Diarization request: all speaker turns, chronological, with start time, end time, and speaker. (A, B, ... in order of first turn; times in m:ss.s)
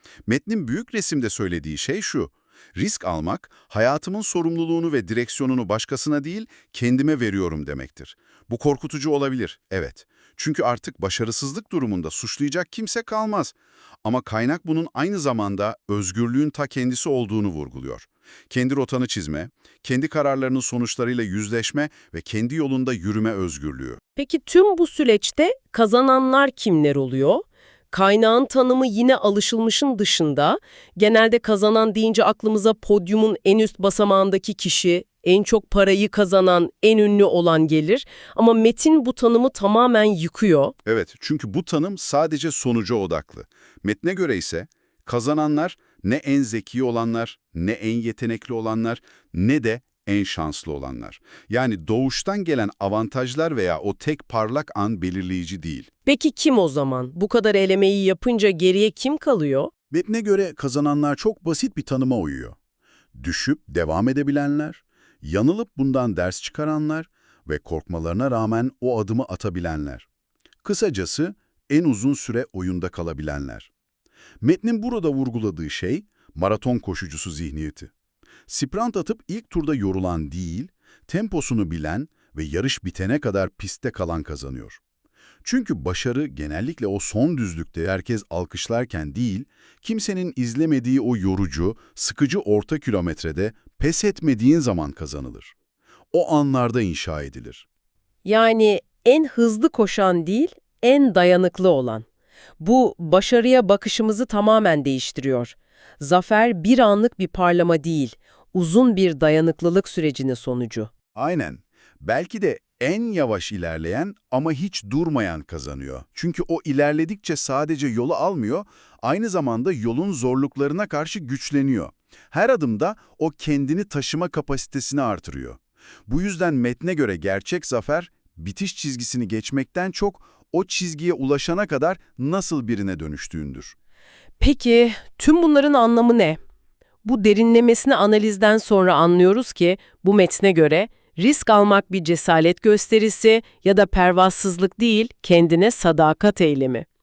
0:00.3-0:24.0 A
0:24.2-0:40.7 B
0:40.8-0:55.9 A
0:56.0-0:59.7 B
0:59.9-1:02.6 A
1:03.1-1:10.1 A
1:10.6-1:13.7 A
1:14.4-1:17.9 A
1:18.5-1:24.8 A
1:25.4-1:35.5 A
1:36.1-1:37.6 A
1:38.2-1:42.0 B
1:42.6-1:50.9 B
1:51.1-2:13.7 A
2:14.4-2:16.4 B
2:17.0-2:26.8 B